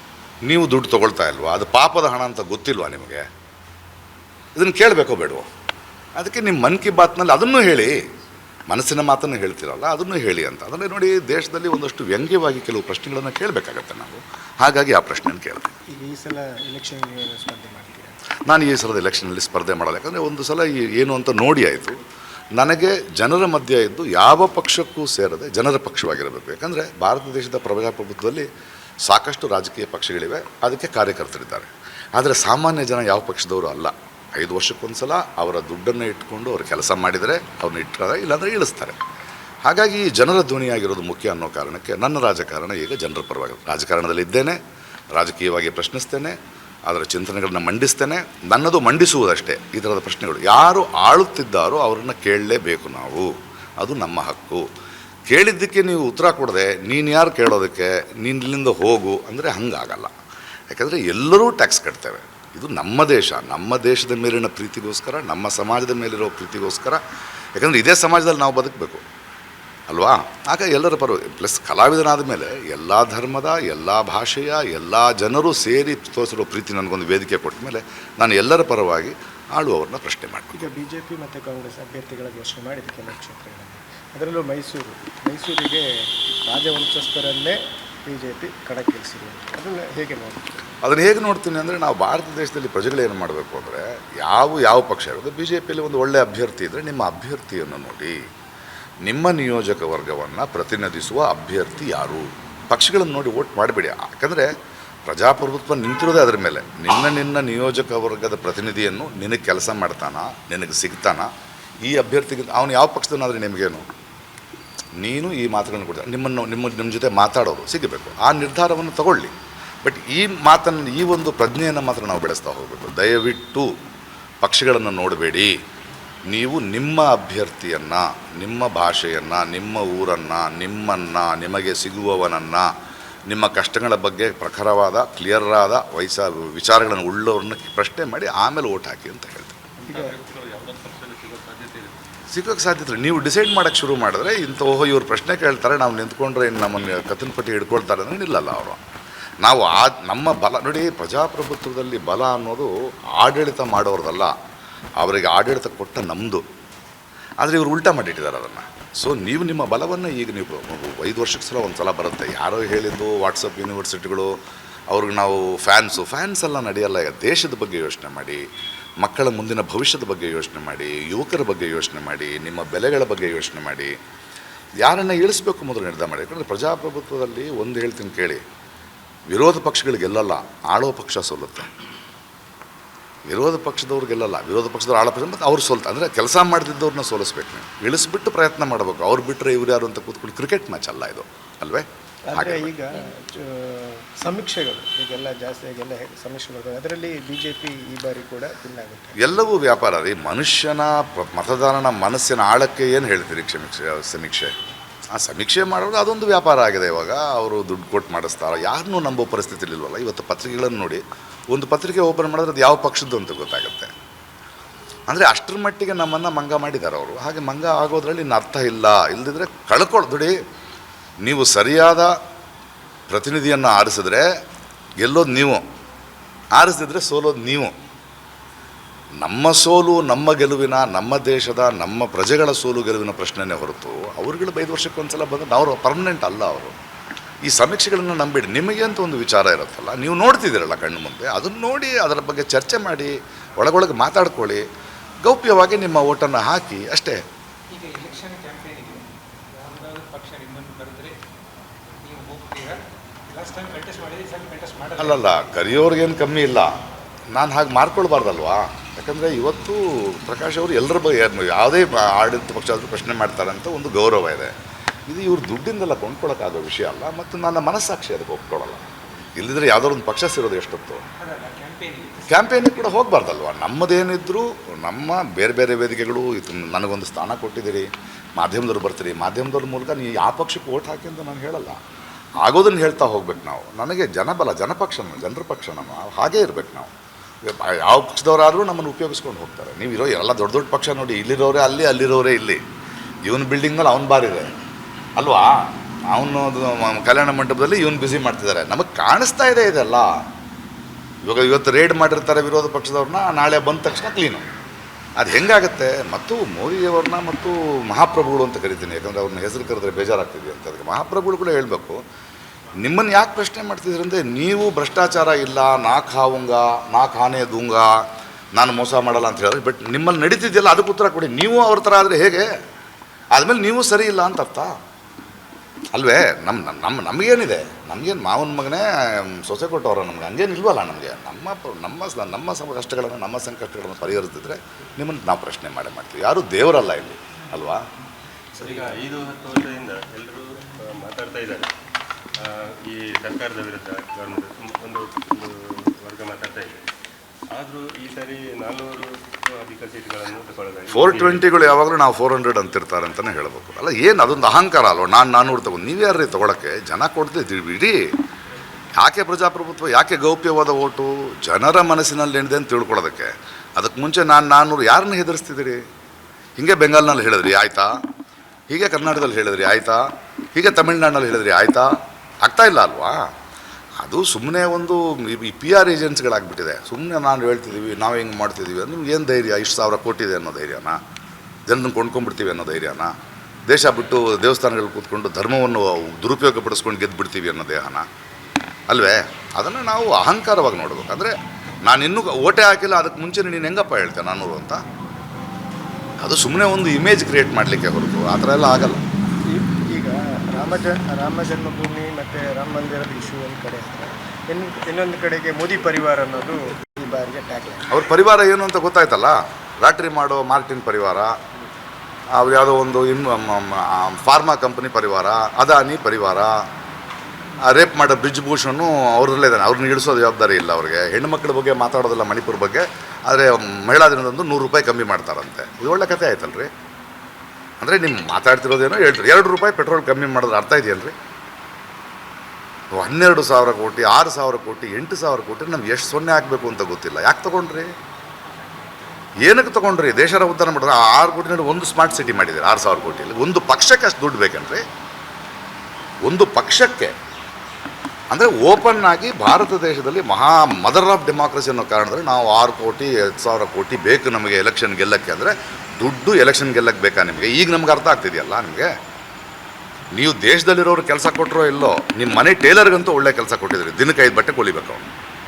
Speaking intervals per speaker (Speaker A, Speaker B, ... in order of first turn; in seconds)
Speaker A: 0.5-3.2, 4.6-5.5, 6.2-8.0, 8.7-15.7, 18.5-22.0, 22.6-28.5, 29.0-39.0, 39.7-44.6, 45.1-46.4, 46.9-54.7, 55.3-60.1, 60.7-67.0, 67.6-69.0, 69.9-80.7, 90.8-98.2, 99.0-104.5, 105.1-111.3, 111.8-113.8, 115.0-119.3, 119.8-123.7, 124.4-125.5, 126.3-132.7, 133.3-139.6, 142.3-148.8, 149.4-154.3, 155.0-156.4, 157.4-164.4, 164.9-168.4, 169.0-173.9, 174.8-178.4, 179.3-181.7, 183.3-192.7, 199.2-204.5, 205.1-213.9, 215.1-220.4, 221.2-222.2, 223.1-224.3, 225.0-225.6, 226.6-227.7, 229.2-236.8, 237.4-244.6, 245.2-247.2, 255.0-256.8, 257.3-264.5, 265.1-271.0, 272.3-281.8, 282.4-286.9, 287.4-292.6, 293.3-294.5, 295.2-300.2, 301.2-304.5, 305.2-312.0, 312.8-322.5, 323.3-324.7, 325.9-337.8, 350.9-358.1, 359.0-365.8, 366.6-367.9, 368.7-373.2, 374.0-381.0, 381.7-383.1, 383.7-388.1, 388.9-394.8, 396.2-399.1, 407.9-411.3, 412.3-416.6, 417.7-426.7, 427.8-431.1, 432.9-437.9, 439.4-444.8, 446.2-447.1, 448.3-458.9, 460.1-465.1
Speaker B: 15.9-18.2, 80.5-90.6, 139.8-140.2, 192.3-199.2, 399.5-407.9
Speaker C: 140.2-142.0, 338.5-341.7, 342.4-346.8, 347.5-351.5
Speaker D: 247.7-251.2, 252.0-255.3, 271.2-272.7